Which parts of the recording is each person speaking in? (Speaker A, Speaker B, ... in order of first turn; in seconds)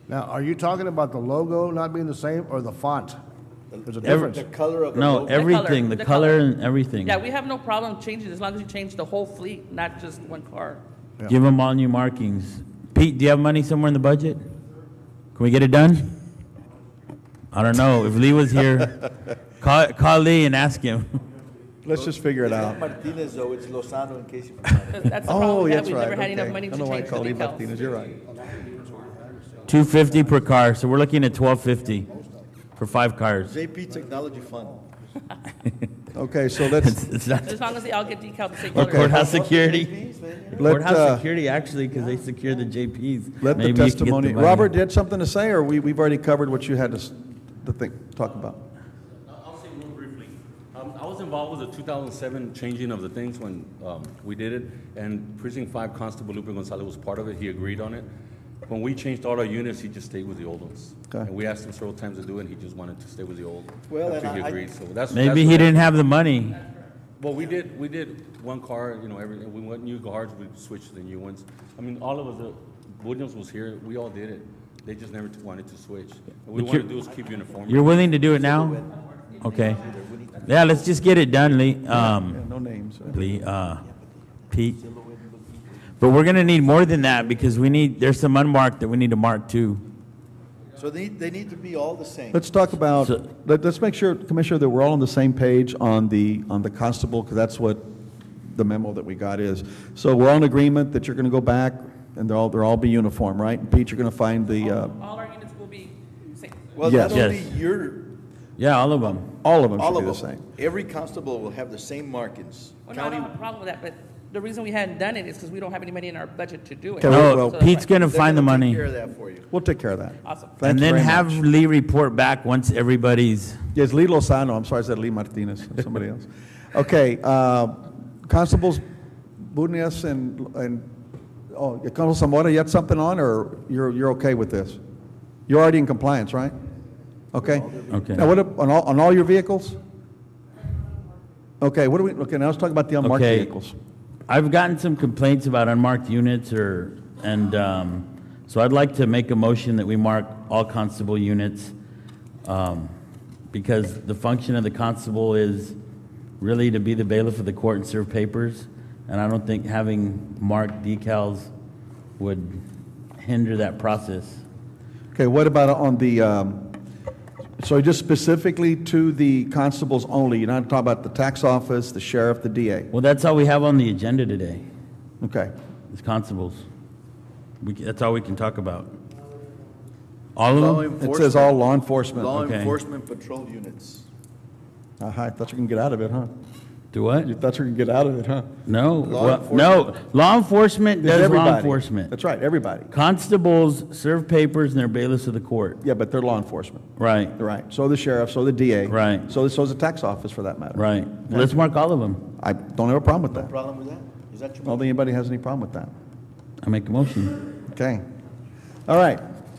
Speaker A: 0.1-3.1
Speaker B: 3.7-5.6, 21.9-25.3, 33.5-34.9, 39.1-40.9, 41.9-42.7, 63.9-64.7, 78.3-81.0, 83.8-87.9, 90.8-92.6, 106.8-108.2, 109.8-113.4, 118.0-119.5, 137.4-138.0, 180.5-184.1, 189.0-189.9, 203.3-204.9
Speaker C: 4.0-4.4, 4.9-7.2, 11.3-14.4, 15.3-16.1, 17.5-19.0, 19.6-21.1, 29.7-32.1, 32.8-33.5, 36.8-37.6, 38.7-39.9, 40.6-44.7, 65.1-66.6, 76.5-76.9, 77.7-78.8, 79.4-79.8, 80.4-82.4, 83.1-83.8, 84.5-84.8, 86.0-89.8, 107.0-107.6, 108.6-109.3, 117.1-118.9, 120.6-123.6, 137.9-138.3, 143.0-143.5, 144.3-151.7, 152.4-152.9, 153.5-155.8, 156.4-161.5, 162.2-162.6, 163.2-164.4, 172.9-174.7, 175.9-176.7, 177.6-178.9, 180.3-180.9, 182.3-182.8, 186.9-187.3, 188.7-192.1, 192.9-195.8, 197.0-197.4, 198.9-199.3, 200.8-202.2, 206.6-207.4
Speaker D: 5.2-6.4, 7.0-10.8, 24.9-27.8, 37.4-39.2, 104.6-106.7, 112.9-118.0, 120.2-120.5
Speaker E: 21.8-22.8, 25.2-28.2, 36.1-37.0, 38.7-39.2, 40.5-41.2, 43.4-48.6, 81.9-83.2, 92.3-105.0, 106.8-107.3, 109.4-110.5, 117.0-117.6, 119.5-121.4, 123.7-128.8, 129.4-130.8, 131.5-134.8, 135.5-136.6, 137.3-139.8, 141.6-143.8, 165.1-166.8, 167.6-172.9, 175.2-175.5, 181.0-182.3, 185.0-186.3, 187.2-188.5, 191.0-192.9, 195.8-196.8, 197.4-201.7, 202.4-203.5, 204.7-205.9, 207.7-208.0, 208.9-209.2
Speaker F: 49.3-58.1, 58.7-65.8, 67.2-78.1